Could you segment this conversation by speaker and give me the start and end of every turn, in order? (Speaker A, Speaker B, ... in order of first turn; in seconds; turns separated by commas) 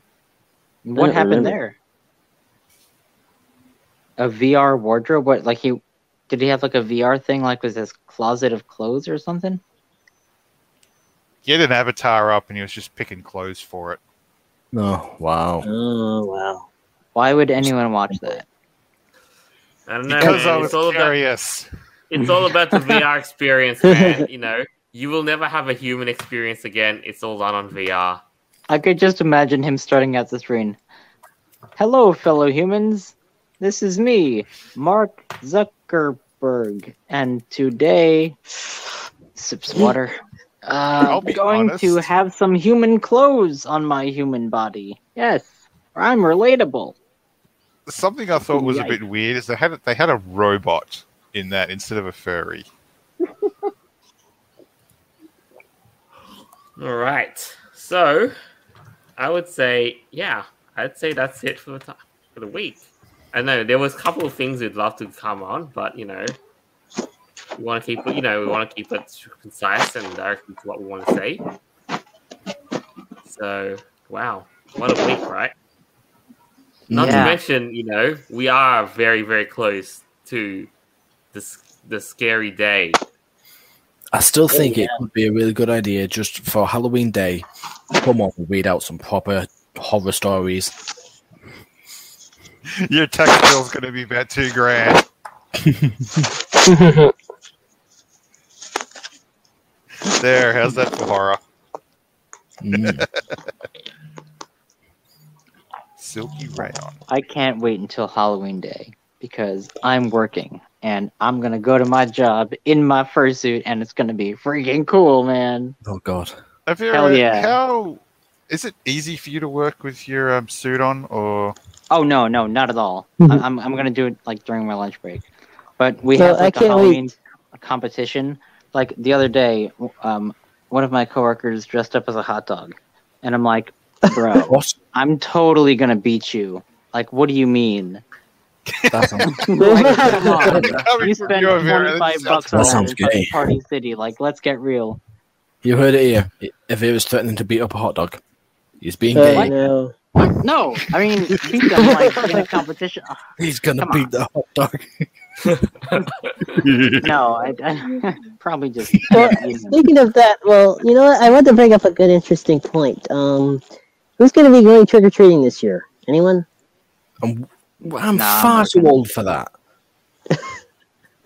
Speaker A: 0.8-1.8, Speaker B: 1.0-1.6, Speaker A: 4.2-9.6, Speaker C: 11.4-14.0, Speaker D: 14.7-15.7, Speaker B: 15.6-16.6, Speaker A: 17.1-18.4, Speaker E: 19.9-21.1, Speaker C: 20.1-21.7, Speaker E: 22.1-28.2, Speaker B: 23.8-24.2, Speaker A: 28.7-30.8, Speaker A: 31.8-38.4, Speaker A: 39.3-47.0, Speaker C: 41.0-42.1, Speaker C: 47.9-52.7, Speaker A: 48.5-49.0, Speaker E: 56.8-58.3, Speaker E: 59.2-66.3, Speaker E: 67.6-71.4, Speaker E: 73.2-75.5, Speaker D: 76.9-77.3, Speaker E: 76.9-80.7, Speaker A: 76.9-77.4, Speaker E: 81.3-83.0, Speaker D: 84.1-90.7, Speaker B: 84.5-85.0, Speaker C: 92.7-95.0, Speaker D: 95.6-96.3, Speaker B: 96.5-97.1, Speaker C: 100.0-101.4, Speaker D: 102.6-103.0, Speaker C: 102.8-103.1, Speaker C: 106.0-107.0, Speaker A: 107.1-115.8, Speaker D: 115.8-116.3, Speaker C: 116.7-121.5, Speaker A: 116.9-117.5, Speaker A: 121.9-125.2, Speaker A: 125.8-138.0, Speaker B: 126.2-127.1, Speaker D: 134.4-134.8, Speaker C: 138.7-139.5, Speaker D: 138.9-139.3, Speaker A: 139.2-145.0, Speaker B: 139.6-140.6, Speaker C: 140.5-142.9, Speaker D: 142.5-143.3, Speaker D: 145.6-148.2, Speaker D: 148.8-149.5, Speaker B: 149.1-149.9, Speaker A: 150.4-153.2, Speaker B: 151.8-152.2, Speaker D: 153.4-155.7, Speaker A: 153.8-154.1, Speaker C: 156.6-157.2, Speaker A: 157.0-159.8, Speaker B: 159.1-163.6, Speaker B: 164.2-166.4, Speaker D: 167.2-169.5, Speaker A: 168.1-168.9